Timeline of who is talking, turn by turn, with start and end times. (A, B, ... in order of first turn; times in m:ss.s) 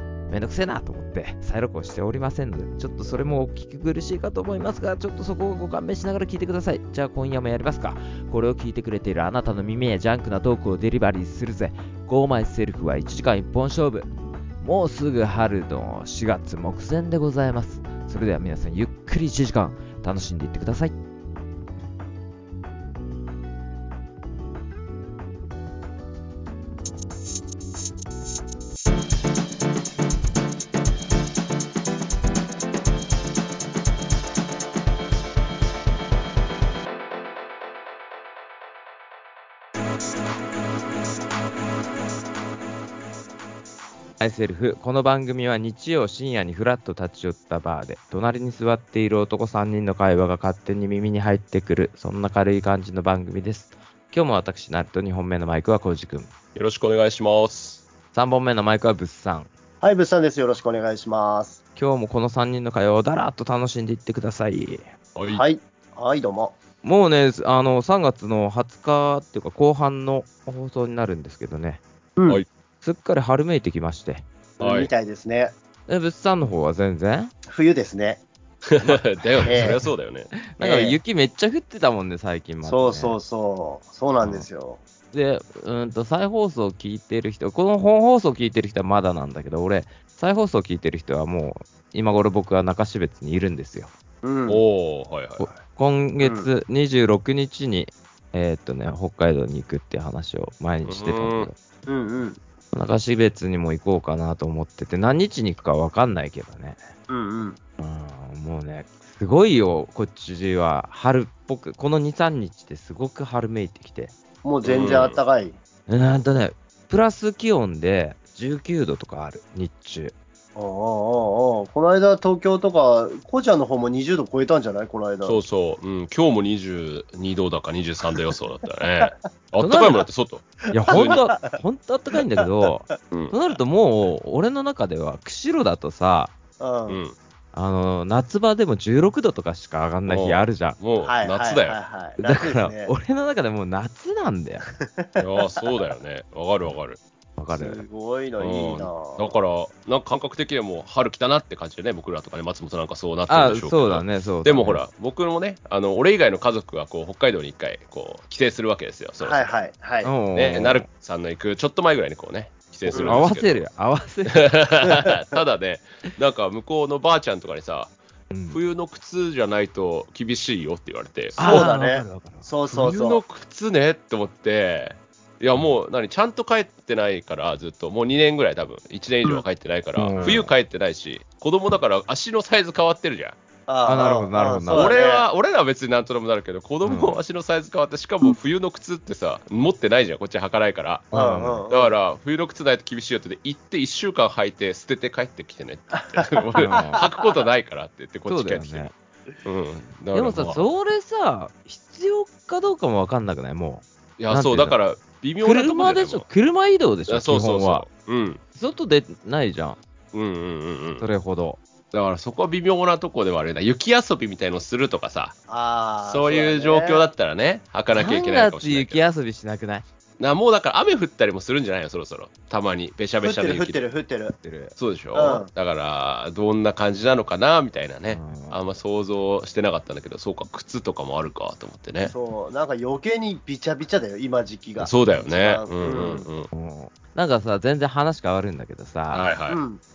0:00.3-0:14.1 A
0:14.6-0:20.9 A
0:44.2-0:56.3 A
0:56.5-0:57.8 B
0:58.1-0:59.5 A
0:59.8-1:01.6 C
1:01.8-1:04.9 A
1:05.2-1:05.4 B
1:05.3-1:06.5 C
1:06.8-1:11.8 A
1:12.8-1:14.2 A
1:14.6-1:15.5 C
1:14.6-1:14.9 B
1:15.9-1:17.3 A
1:17.4-1:18.2 C
1:18.7-1:20.3 B
1:18.8-1:19.7 A
1:19.4-1:19.8 C
1:20.4-1:23.2 A
1:20.6-1:21.0 C
1:22.6-1:24.8 C
1:25.1-1:33.9 A
1:34.2-1:34.6 C
1:34.5-1:35.5 B
1:35.4-1:41.6 A
1:36.2-1:36.5 C
1:40.8-1:41.5 B
1:41.9-1:42.4 C
1:42.7-1:46.8 A
1:47.1-1:47.6 C
1:47.8-1:54.1 A
1:54.4-1:55.6 C
1:54.6-1:55.2 B
1:55.9-2:00.1 A
2:00.6-2:05.4 C
2:05.2-2:11.2 B
2:09.6-2:10.0 A
2:10.7-2:11.6 C
2:10.7-2:16.3 A
2:12.1-2:12.7 C
2:13.1-2:13.4 B
2:16.6-2:17.0 C
2:16.9-2:17.1 B
2:17.5-2:20.8 A
2:20.1-2:21.8 B
2:21.0-2:22.9 C
2:22.2-2:24.7 A
2:24.8-2:25.8 C
2:25.2-2:27.0 B
2:27.4-2:27.8 A
2:27.5-2:29.3 C
2:28.4-2:39.5 B
2:33.3-2:34.8 A
2:39.2-2:40.1 C
2:40.0-2:40.9 A
2:40.3-2:43.7 B
2:42.9-2:43.2 C
2:43.0-2:44.5 A
2:44.3-2:47.9 B
2:48.3-2:48.6 A
2:48.5-2:51.6 B
2:51.4-2:52.5 A
2:51.4-2:53.2 C
2:52.7-3:03.4 B
3:00.0-3:00.5 A
3:00.2-3:00.4 C
3:03.7-3:05.2 C
3:03.8-3:04.9 A
3:04.7-3:18.9 B
3:06.8-3:07.2 A
3:11.1-3:11.6 A
3:11.1-3:12.0 C
3:16.1-3:17.3 C
3:16.6-3:17.0 A
3:18.3-3:18.9 A
3:19.4-3:20.7 B
3:20.1-3:24.8 A
3:24.2-3:26.2 B
3:25.4-3:27.8 A
3:27.1-3:28.4 B
3:28.5-3:29.8 A
3:30.1-3:31.0 B
3:31.0-3:31.6 A
3:31.9-3:35.4 B
3:35.5-3:37.1 C
3:36.0-3:39.0 B
3:37.9-3:39.8 A
3:40.2-3:43.8 B
3:43.2-3:44.3 C
3:44.4-3:44.7 A
3:44.8-3:52.1 B
3:45.1-3:45.5 C
3:48.1-3:48.6 A
3:52.0-3:56.2 C
3:54.8-3:56.5 B
3:56.5-3:59.3 A
3:59.1-3:59.6 B
3:59.5-3:59.8 C